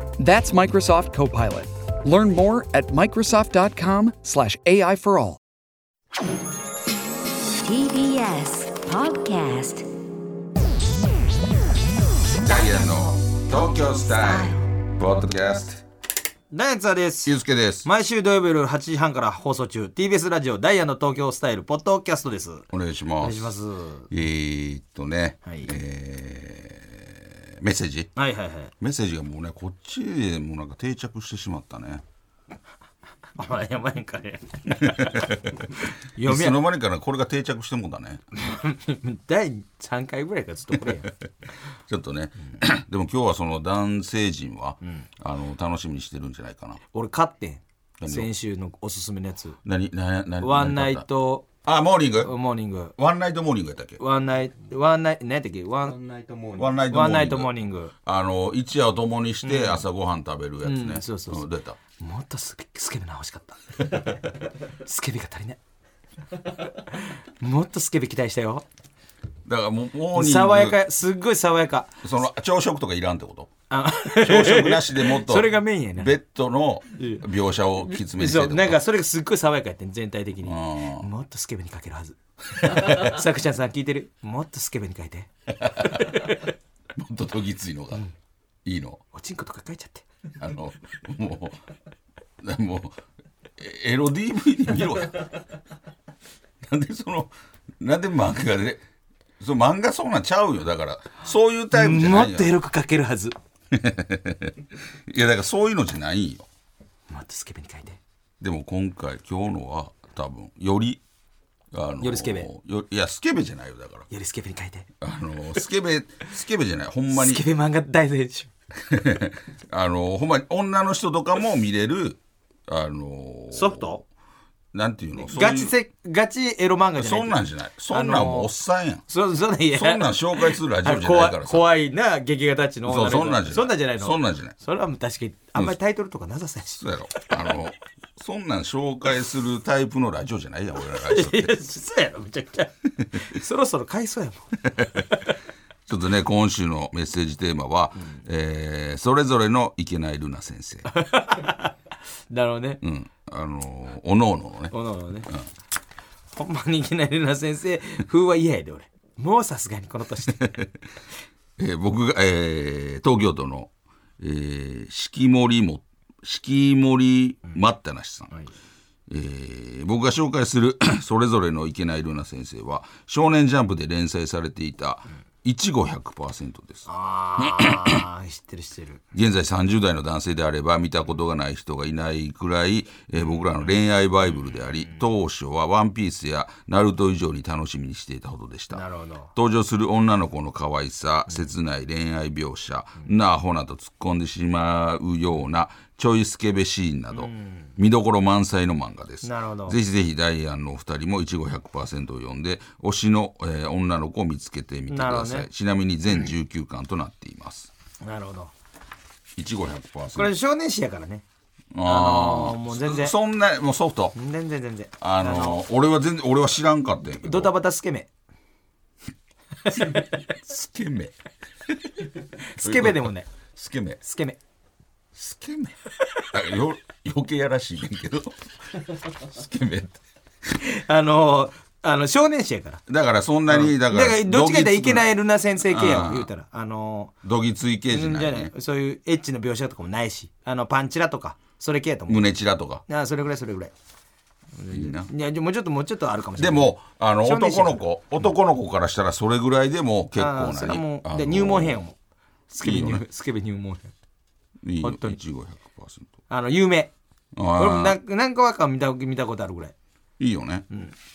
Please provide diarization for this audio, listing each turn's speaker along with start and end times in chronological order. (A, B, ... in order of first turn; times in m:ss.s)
0:00.2-0:05.4 A
0:07.6-0:09.9 B
0:12.3-0:15.8 C
0:14.2-0:14.6 B
0:16.5-0:22.7 D
0:17.2-0:17.9 C
0:22.7-0:23.5 C
0:23.2-0:24.1 D
0:24.1-0:28.1 C
0:25.4-0:25.7 D
0:28.2-0:28.7 D
0:28.8-0:32.0 C
0:33.4-0:35.3 D
0:34.8-0:38.2 C
0:36.1-0:36.6 D
0:38.3-0:41.1 D
0:41.8-0:46.8 C
0:46.9-0:49.6 D
0:48.0-0:48.3 C
0:49.6-0:52.3 C
0:50.4-0:51.4 D
0:52.2-0:52.9 D
0:53.0-0:54.0 C
0:54.0-0:57.9 D
0:56.4-1:01.8 C
0:59.4-0:59.8 D
1:00.6-1:05.6 D
1:06.6-1:08.6 D
1:09.4-1:10.8 C
1:10.1-1:12.0 D
1:12.0-1:13.5 C
1:13.7-1:16.2 D
1:14.1-1:18.8 C
1:17.0-1:17.2 D
1:17.8-1:25.3 D
1:20.4-1:21.1 C
1:25.6-1:28.0 C
1:25.8-1:26.4 D
1:28.6-1:29.0 C
1:29.1-1:30.0 D
1:30.4-1:31.6 C
1:32.4-1:33.0 C
1:33.6-1:35.4 C
1:36.6-1:38.8 C
1:39.4-1:42.5 C
1:41.7-1:43.3 D
1:43.7-1:46.5 C
1:47.1-1:48.0 D
1:48.4-1:51.0 C
1:51.7-1:54.1 C
1:52.0-1:52.5 D
1:54.1-1:54.9 D
1:55.0-1:57.4 C
1:57.1-1:58.5 D
1:58.8-2:03.9 C
2:03.5-2:04.0 D
2:04.7-2:05.7 C
2:05.2-2:08.5 D
2:07.0-2:09.0 C
2:09.1-2:17.3 D
2:09.7-2:11.7 C
2:12.8-2:14.5 C
2:16.8-2:21.6 C
2:20.9-2:25.3 D
2:24.6-2:25.1 C
2:25.9-2:30.9 C
2:30.8-2:31.7 D
2:32.3-2:32.8 D
2:32.8-2:34.7 C
2:34.7-2:35.3 D
2:36.3-2:40.6 D
2:40.3-2:40.7 C
2:41.6-2:48.3 C
2:49.1-2:56.9 C
2:56.9-2:59.0 D
2:57.4-2:58.0 C
2:59.1-3:27.7 C
3:08.7-3:09.3 D
3:17.1-3:17.7 D
3:19.2-3:19.8 D
3:24.9-3:25.5 D
3:28.0-3:28.5 D
3:29.4-3:30.3 C
3:30.2-3:31.2 D
3:31.7-3:34.2 C
3:31.8-3:33.1 D
3:34.2-3:35.6 D
3:35.0-3:37.5 C
3:37.2-3:38.1 D
3:39.6-3:40.2 D
3:39.8-3:41.1 C
3:42.4-3:43.3 D
3:42.6-3:44.0 C
3:44.0-3:44.4 D
3:45.1-3:45.7 C
3:46.3-3:50.0 C
3:50.5-3:52.8 D
3:52.9-3:56.3 C
3:53.5-3:57.1 D
3:57.2-3:58.5 C
3:57.9-4:02.3 D
4:02.1-4:02.8 C
4:02.9-4:03.7 D
4:04.5-4:07.8 D
4:04.7-4:05.1 C
4:06.4-4:11.8 C
4:10.2-4:12.0 D
4:12.5-4:13.9 D
4:12.6-4:13.0 C
4:14.6-4:16.1 C
4:14.8-4:15.2 D
4:16.3-4:16.9 D
4:17.3-4:18.0 C
4:17.5-4:19.7 D
4:20.2-4:20.6 C
4:20.7-4:20.9 D